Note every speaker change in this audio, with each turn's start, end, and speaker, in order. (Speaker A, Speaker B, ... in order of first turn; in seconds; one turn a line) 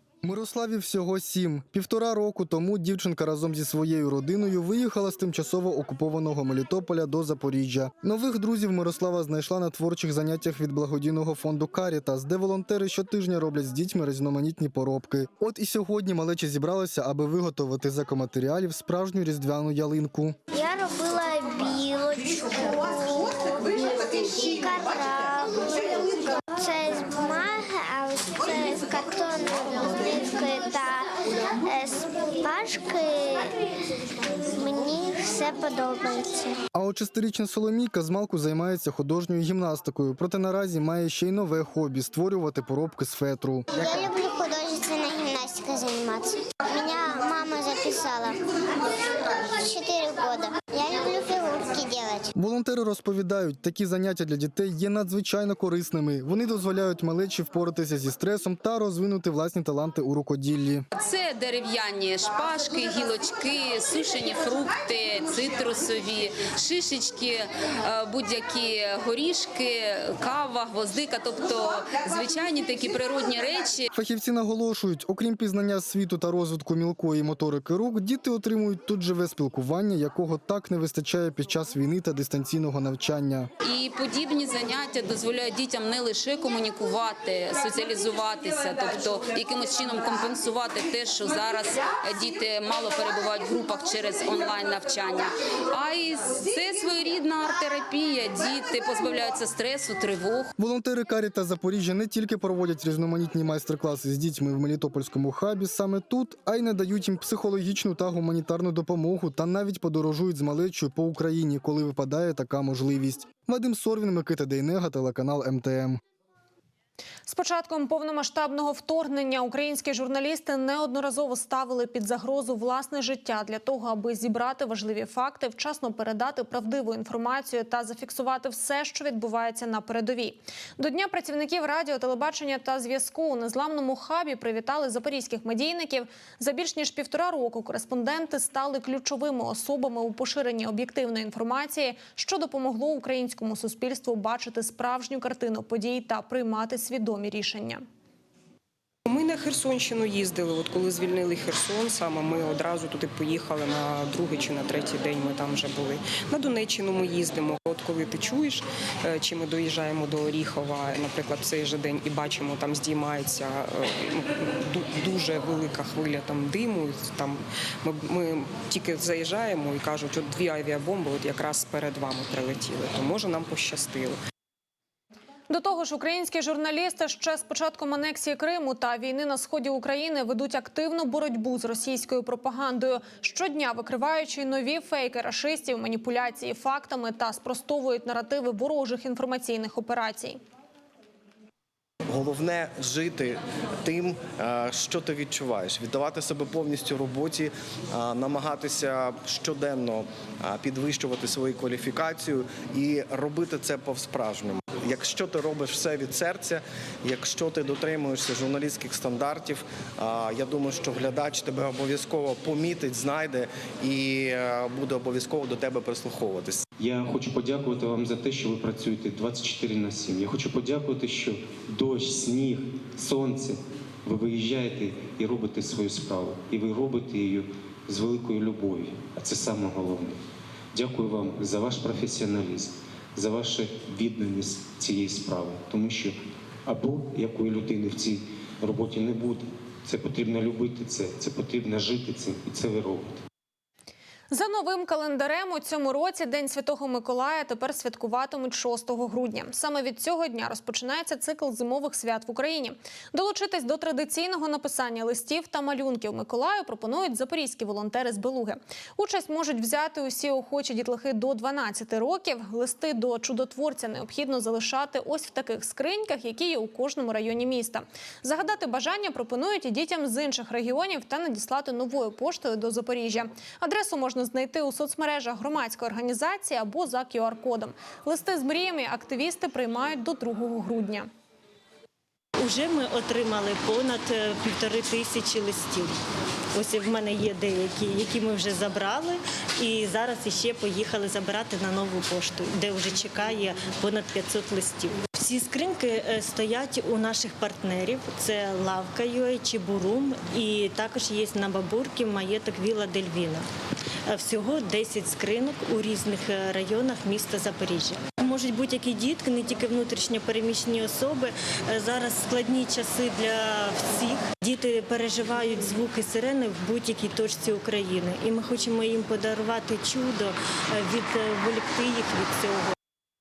Speaker A: 0.2-20.4
Speaker B: 20.5-25.9
Speaker B: 26.6-31.1
Speaker B: 31.6-33.5
Speaker B: 34.5-36.6
Speaker A: 36.7-43.7
Speaker B: 43.7-48.4
Speaker B: 49.6-52.3
Speaker A: 52.3-60.9
Speaker C: 61.0-73.9
Speaker A: 73.9-83.5
Speaker C: 83.6-100.5
Speaker A: 100.6-116.0
Speaker D: 117.2-147.8
Speaker E: 149.1-174.2
Speaker D: 175.5-190.4
Speaker F: 192.1-216.6
Speaker G: 216.8-230.2
Speaker G: 230.7-243.2
Speaker D: 244.3-281.1
Speaker H: 282.4-286.0
Speaker H: 286.6-303.5
Speaker H: 304.1-322.7